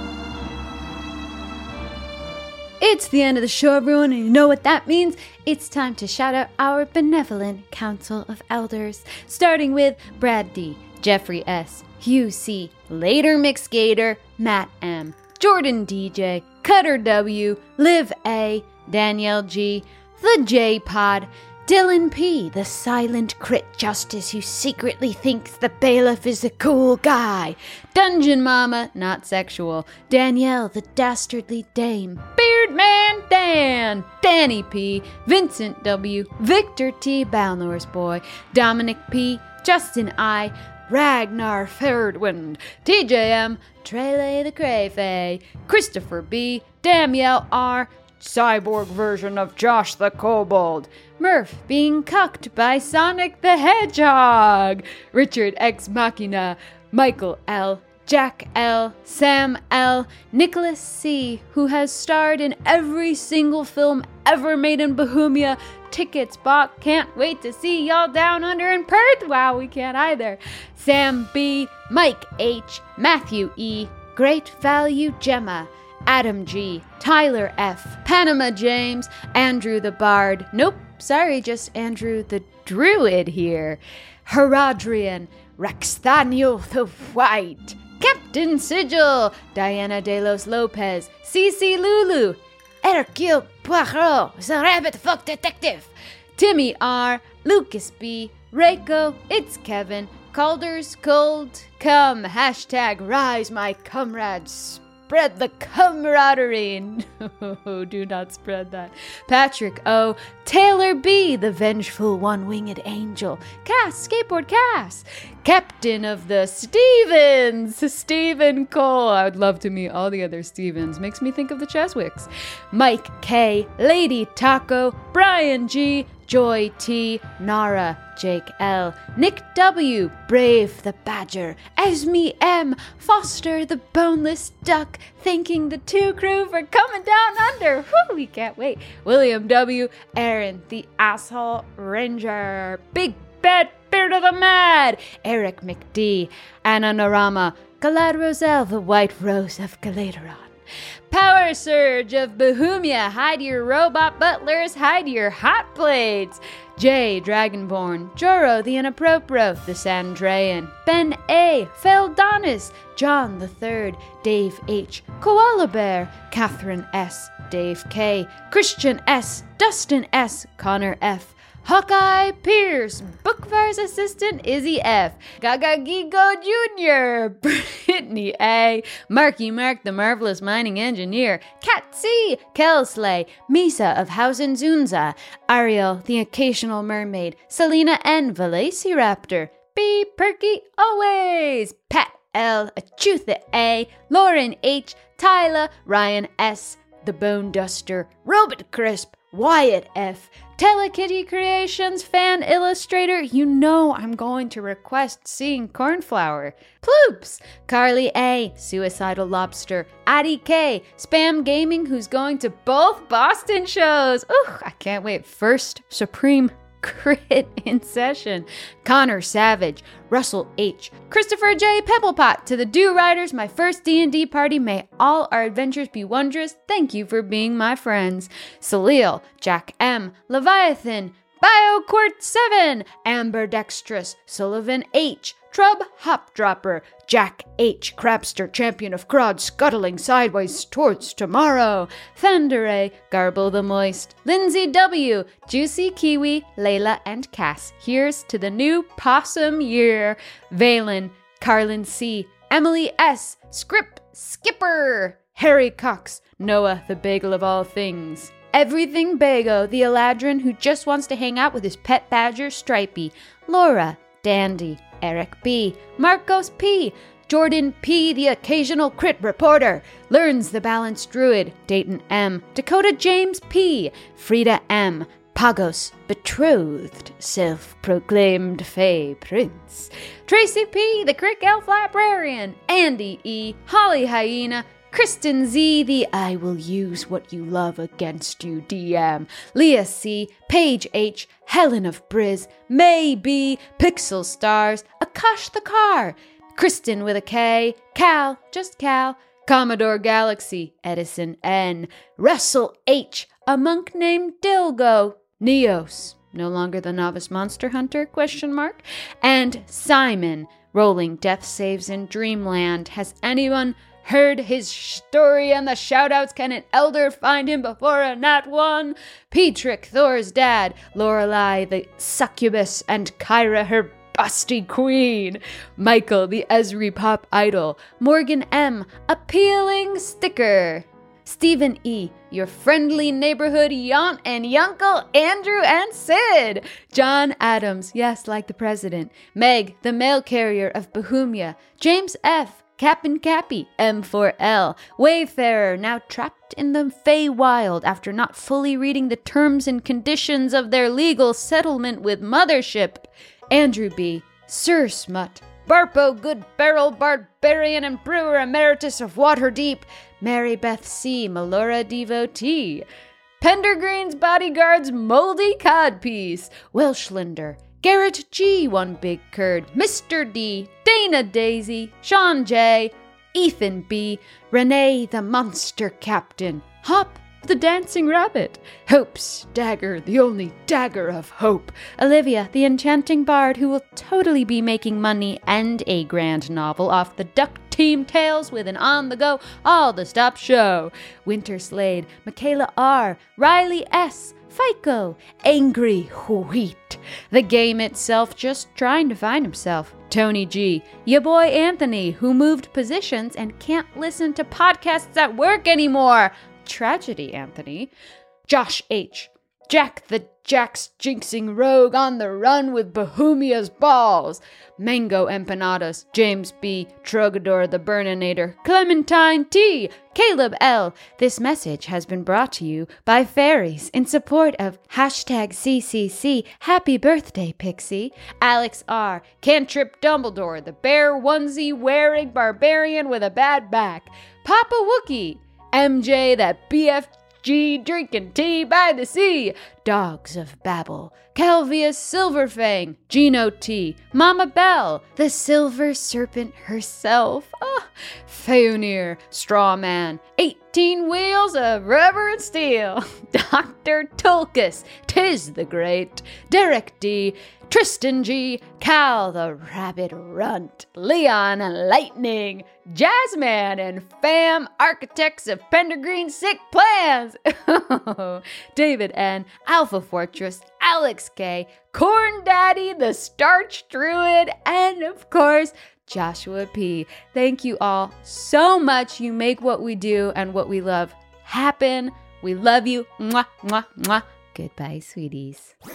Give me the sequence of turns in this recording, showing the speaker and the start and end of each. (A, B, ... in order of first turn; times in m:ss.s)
0:02.8-2:30.5 A
2:31.1-6:02.8 A
6:03.4-6:47.9 A
6:48.5-8:05.7 A